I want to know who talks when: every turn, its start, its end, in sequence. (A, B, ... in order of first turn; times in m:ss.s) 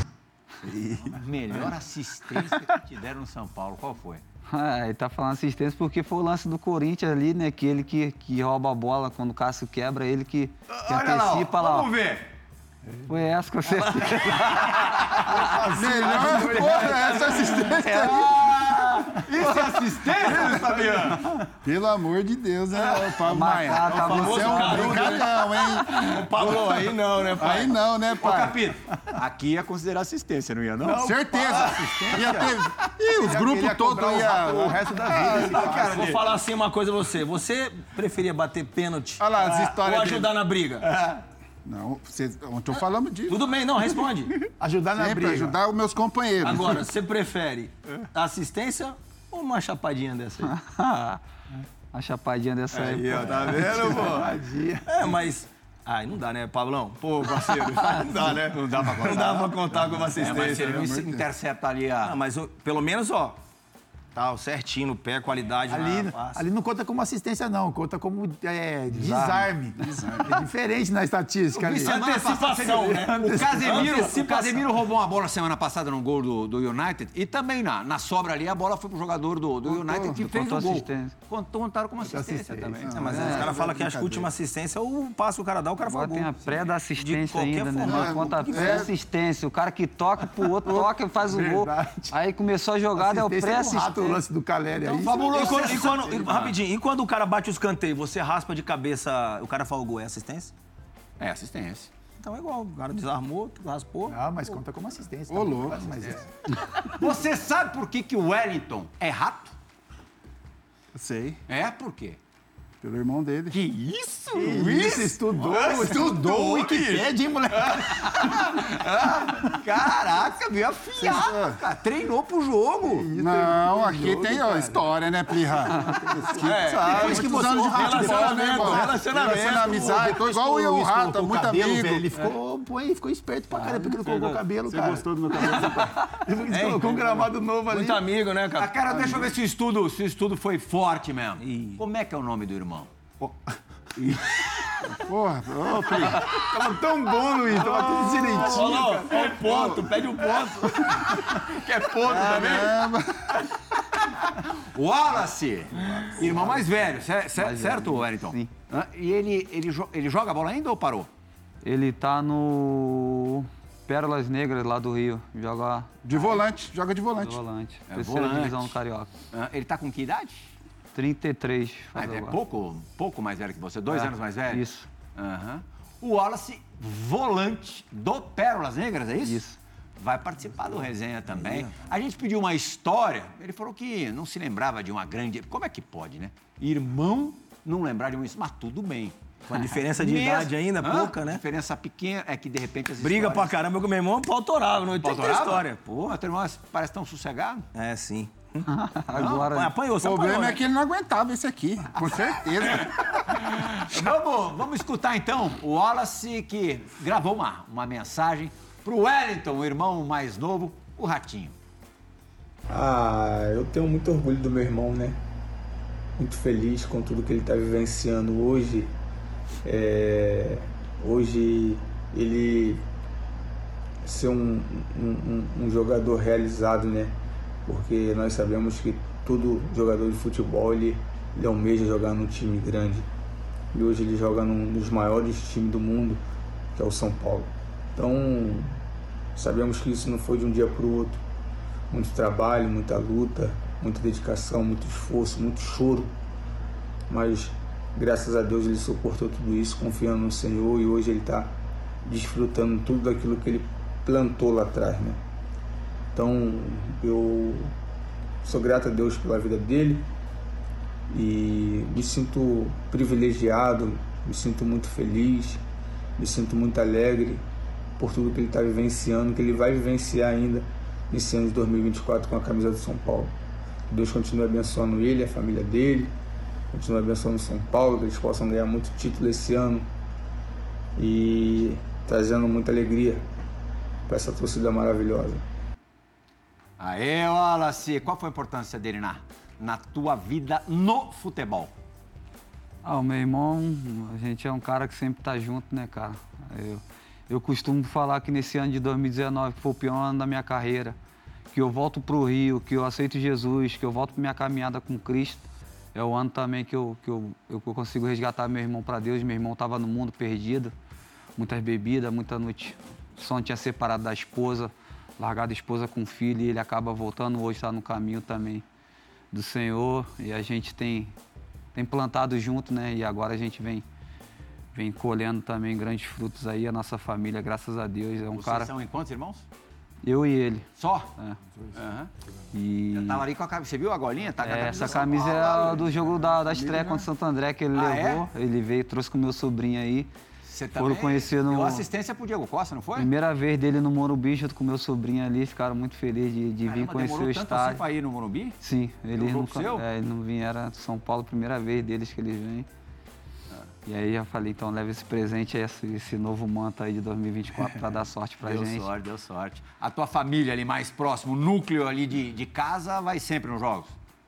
0:00.6-0:01.7 A
0:01.1-0:04.2 B
0:04.5-0:11.9 C
0:10.7-0:12.3 B
0:13.1-0:15.2 C
0:14.9-0:15.4 B
0:15.3-0:17.8 D
0:15.7-0:18.5 E
0:16.6-0:21.3 B
0:20.1-0:26.6 E
0:23.2-0:25.0 C
0:23.8-0:25.4 A
0:25.7-0:26.6 B
0:25.9-0:27.7 A
0:27.2-0:28.7 E
0:27.4-0:31.1 B
0:30.8-0:32.5 D
0:31.0-0:35.6 E
0:33.2-0:36.1 D
0:35.1-0:36.2 B
0:35.7-0:40.9 A
0:39.2-0:40.4 E
0:40.8-0:41.2 B
0:41.6-0:43.5 E
0:43.3-0:44.4 A
0:44.6-0:45.6 D
0:45.0-0:46.8 E
0:46.4-0:50.5 A
0:50.4-0:51.2 C
0:51.9-0:53.6 C
0:52.7-1:01.1 A
0:53.2-0:54.1 B
0:53.5-0:55.1 D
0:57.8-0:59.6 B
1:00.1-1:02.2 B
1:00.3-1:01.1 E
1:02.0-1:03.4 A
1:04.1-1:06.4 A
1:05.7-1:12.0 D
1:08.9-1:09.5 C
1:09.8-1:10.4 E
1:11.5-1:23.1 B
1:11.7-1:14.5 A
1:12.9-1:14.5 D
1:19.7-1:20.2 E
1:20.1-1:21.1 C
1:22.0-1:23.0 D
1:22.8-1:24.3 E
1:22.9-1:28.9 A
1:23.1-1:23.5 C
1:25.8-1:34.2 C
1:27.8-1:28.9 E
1:30.6-1:31.7 E
1:31.2-1:32.1 D
1:33.0-1:36.3 D
1:34.8-1:36.6 B
1:35.3-1:40.5 A
1:41.2-1:41.9 B
1:42.2-1:44.2 A
1:44.1-1:46.3 D
1:45.3-1:46.2 E
1:46.9-1:49.5 B
1:50.9-1:51.4 E
1:51.5-1:52.2 B
1:52.8-1:53.6 E
1:53.5-2:03.1 B
1:54.3-1:58.6 D
2:01.0-2:01.6 E
2:02.8-2:04.9 D
2:03.2-2:12.1 E
2:05.5-2:18.0 D
2:06.4-2:09.8 A
2:13.5-2:14.4 A
2:14.0-2:15.9 E
2:16.5-2:19.3 A
2:18.6-2:22.9 B
2:21.4-2:21.8 A
2:24.0-2:24.3 A
2:24.8-2:26.2 E
2:26.0-2:26.4 A
2:26.4-2:29.0 D
2:27.6-2:30.9 A
2:27.8-2:41.1 B
2:32.1-2:33.3 E
2:35.9-2:36.8 D
2:37.4-2:38.5 C
2:41.6-2:46.4 C
2:46.0-2:47.4 E
2:47.2-2:49.1 C
2:47.9-2:48.8 B
2:49.3-2:50.5 B
2:50.9-2:52.4 C
2:51.9-2:59.4 B
2:53.9-2:54.9 C
2:59.2-2:59.6 C
3:00.0-3:13.6 B
3:01.4-3:01.7 A
3:09.5-3:11.4 A
3:13.0-3:15.8 A
3:15.0-3:17.6 B
3:17.7-3:20.6 A
3:18.7-3:19.7 C
3:19.1-3:19.5 B
3:20.0-3:23.2 E
3:22.7-3:31.5 B
3:32.7-3:35.2 F
3:36.2-3:38.9 F
3:39.6-3:42.8 F
3:44.0-3:47.1 F
3:47.6-3:53.1 F
3:53.7-3:56.2 F
3:56.8-3:58.8 F
3:59.3-4:01.2 F
4:01.9-4:06.1 F
4:07.1-4:11.5 F
4:12.0-4:15.2 F
4:16.1-4:17.7 F
4:18.4-4:20.0 F
4:21.1-4:25.6 F
4:26.2-4:27.4 F
4:28.0-4:33.3 F
4:33.9-4:36.1 F
4:36.7-4:39.9 F
4:41.0-4:43.2 F
4:44.1-4:45.4 F
4:46.8-4:51.7 B
4:52.8-5:01.0 C
5:01.5-5:10.7 C
5:11.4-5:18.6 C
5:19.3-5:21.1 C
5:21.7-5:23.8 C
5:24.7-5:28.7 C
5:28.3-5:29.4 B
5:30.0-5:31.4 C
5:30.8-5:31.1 B
5:31.7-5:32.1 B
5:32.5-5:33.2 C
5:32.9-5:36.0 B
5:34.4-5:40.1 C
5:36.2-5:37.1 E
5:37.7-5:38.3 B
5:40.4-5:43.1 B
5:40.7-5:41.8 C
5:43.0-5:47.8 C
5:46.6-5:48.6 B
5:48.6-5:52.7 C
5:49.1-5:49.8 B
5:53.8-5:58.9 C
5:58.4-6:03.9 B